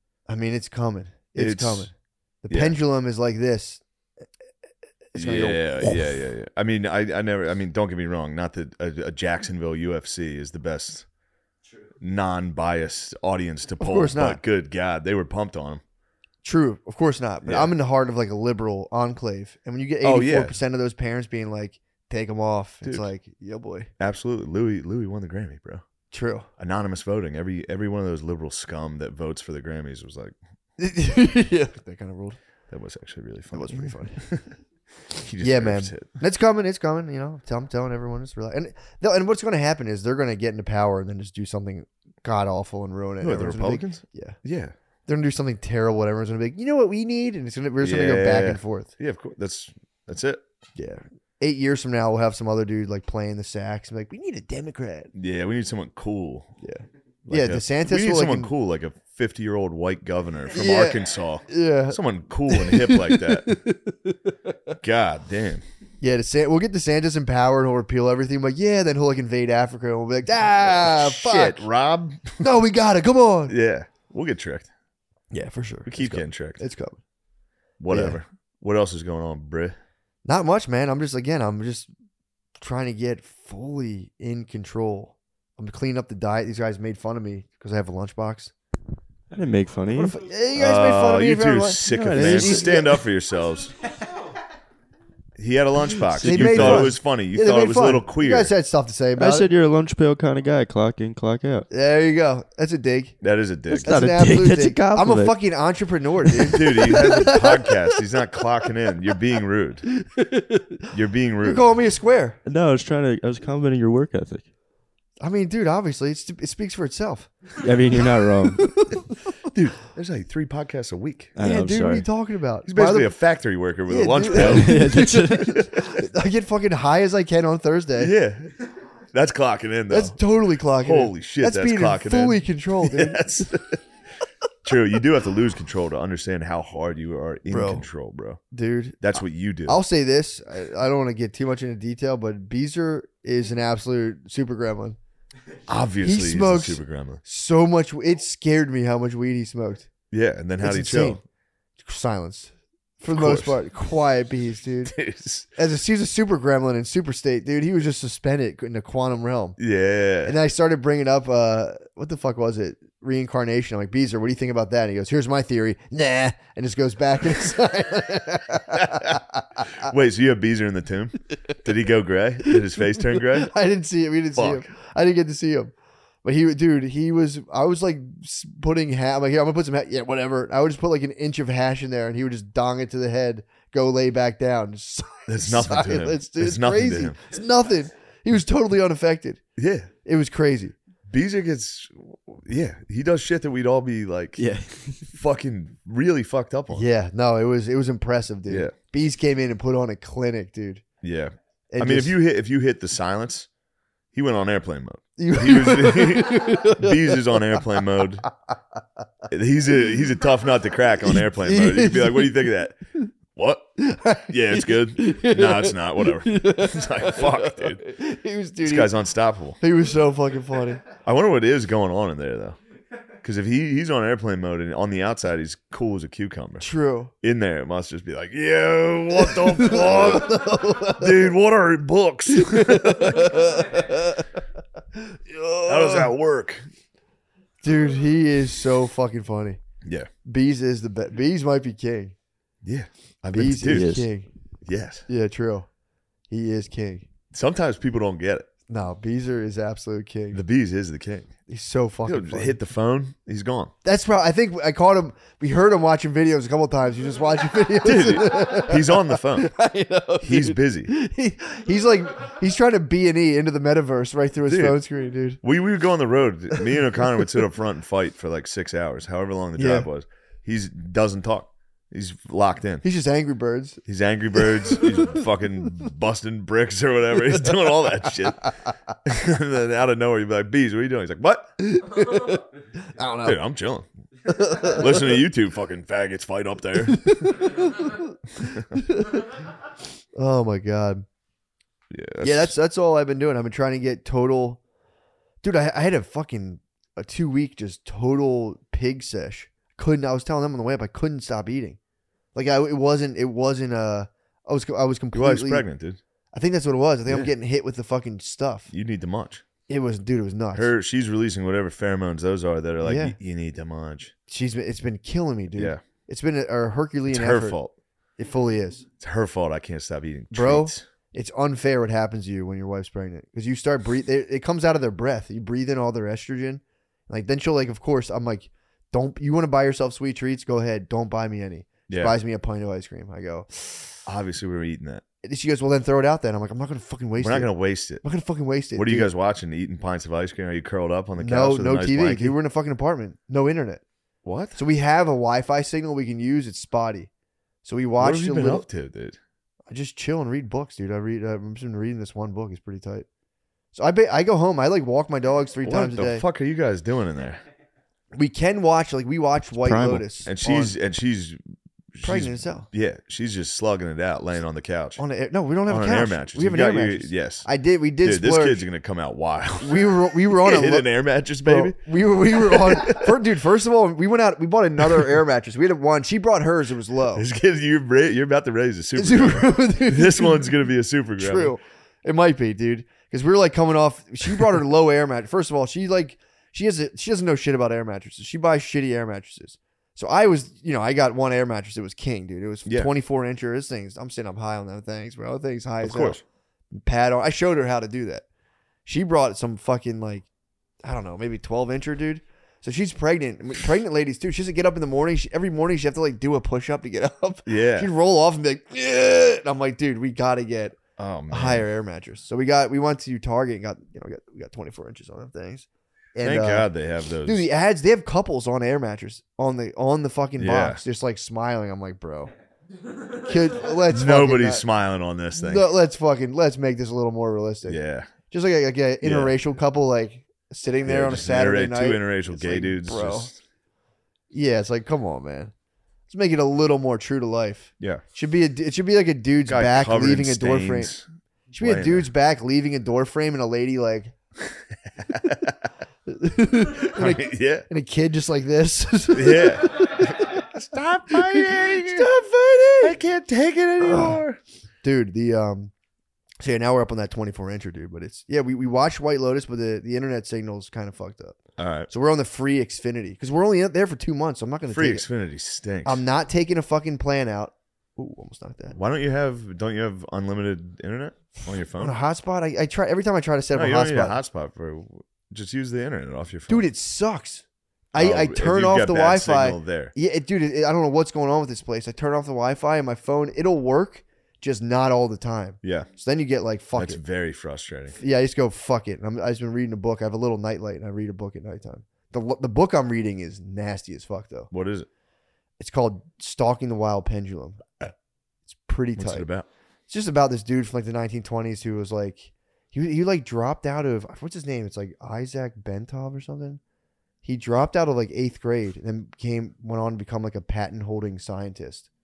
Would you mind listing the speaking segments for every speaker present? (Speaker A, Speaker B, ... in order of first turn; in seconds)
Speaker A: 0.3-1.9, 2.4-3.8, 5.1-6.2, 13.8-14.4, 16.4-23.9, 26.1-26.5, 30.8-32.4, 33.5-34.3, 35.4-44.4, 45.1-48.9, 50.8-55.1, 56.6-58.5, 60.5-64.7, 66.0-71.7, 72.4-73.5, 75.3-77.0, 77.9-78.2, 80.2-81.9, 82.6-88.5, 89.9-93.0, 96.2-99.5, 101.7-103.2, 103.8-107.8, 110.0-110.8, 111.4-112.4, 115.2-117.3, 118.6-119.1, 121.4-123.1, 123.9-128.1, 129.9-133.2, 137.5-137.8, 138.5-139.0, 139.7-145.0, 146.0-149.9, 150.6-151.2, 151.8-154.9, 155.6-159.6, 160.2-169.9, 173.1-175.7, 176.2-189.4, 190.0-190.8, 196.7-200.8, 201.7-202.2, 205.2-207.3, 211.1-212.5, 213.8-218.9, 219.6-220.8, 226.6-227.1, 229.2-231.3, 232.3-234.2, 234.9-236.1, 237.6-239.6, 240.2-242.1, 243.3-244.3, 245.1-245.7, 246.3-247.1, 248.7-250.4, 251.5-252.6, 253.8-265.4, 269.6-269.9, 272.8-273.8, 274.4-275.2, 281.6-283.4, 284.3-285.1, 286.9-289.3, 290.1-291.0, 292.2-294.6, 295.4-301.8, 302.3-305.6, 306.3-308.7, 309.7-310.7, 312.8-313.2, 314.3-317.6, 318.2-318.9, 320.3-334.0, 335.2-339.1, 341.2-343.8, 344.5-347.1, 347.6-348.6, 349.7-353.1, 353.7-356.2, 358.1-360.8, 362.0-362.7, 365.0-368.6, 369.6-377.2, 378.9-380.5, 381.2-396.2, 396.7-398.2, 398.8-400.2, 400.8-410.8, 411.3-416.7, 417.2-422.3, 423.1-424.6, 425.3-433.3, 434.3-435.5, 436.1-440.9, 441.5-444.1, 446.1-450.4, 451.1-453.0, 453.8-454.2, 454.8-455.7, 456.4-465.1, 465.8-468.8, 471.7-474.2, 476.5-487.0, 488.0-494.5, 495.6-497.6, 498.5-499.3, 499.9-506.6, 507.2-511.9
Speaker B: 1.3-1.9, 2.5-2.8, 5.1-11.1, 12.0-15.8, 17.4-17.7, 20.0-20.6, 22.8-23.1, 24.0-25.8, 26.6-30.3, 32.7-34.5, 35.1-36.1, 43.2-44.7, 47.8-50.4, 55.1-56.5, 57.2-63.6, 64.8-65.6, 70.6-72.5, 73.5-74.7, 75.8-76.6, 77.8-79.8, 90.5-93.7, 95.4-98.5, 103.2-104.0, 106.5-109.9, 110.9-111.6, 119.4-121.3, 122.7-125.0, 125.5-125.8, 128.0-128.5, 129.1-133.8, 134.6-138.4, 139.0-139.8, 145.7-147.2, 150.1-151.2, 153.1-153.6, 154.8-155.5, 159.6-160.4, 168.7-169.2, 169.8-173.5, 174.3-174.7, 185.3-187.2, 189.6-189.9, 191.1-196.9, 198.5-198.7, 201.0-203.5, 204.1-208.3, 209.3-212.8, 213.3-213.8, 214.3-217.8, 218.6-219.6, 221.0-222.6, 223.2-226.7, 227.2-233.4, 235.7-236.7, 239.8-240.1, 242.6-243.9, 244.6-245.1, 247.3-248.5, 250.3-251.3, 252.1-253.7, 257.8-259.6, 260.2-260.9, 264.5-264.8, 265.4-272.8, 273.9-278.5, 279.0-281.6, 283.2-283.9, 284.5-287.5, 291.9-292.5, 305.1-306.0, 307.1-307.3, 308.7-309.4, 310.5-314.1, 315.6-315.8, 317.1-317.7, 319.0-320.8, 331.9-332.1, 334.1-335.0, 337.2-338.0, 338.7-342.4, 344.2-344.6, 348.0-349.2, 355.6-357.4, 360.2-361.4, 361.9-365.0, 365.7-367.5, 368.0-373.2, 377.1-381.5, 392.6-392.9, 395.8-396.2, 407.4-407.9, 411.0-411.7, 416.2-417.5, 420.4-420.8, 423.8-425.7, 427.6-428.1, 429.0-429.4, 430.8-433.4, 439.5-441.1, 441.6-442.1, 445.0-445.5, 446.8-447.7, 449.1-452.1, 452.8-454.4, 461.6-461.9, 464.7-466.0, 468.7-471.9, 473.5-476.7, 477.9-479.9, 485.6-485.9, 486.7-488.0, 494.5-494.9, 498.9-499.5
Speaker C: 89.3-90.1, 91.9-92.8, 96.0-96.9, 99.2-101.7, 103.7-105.4, 112.5-114.5, 117.6-118.8, 121.3-122.0, 124.3-125.6, 194.4-195.1, 243.7-244.1, 359.6-360.1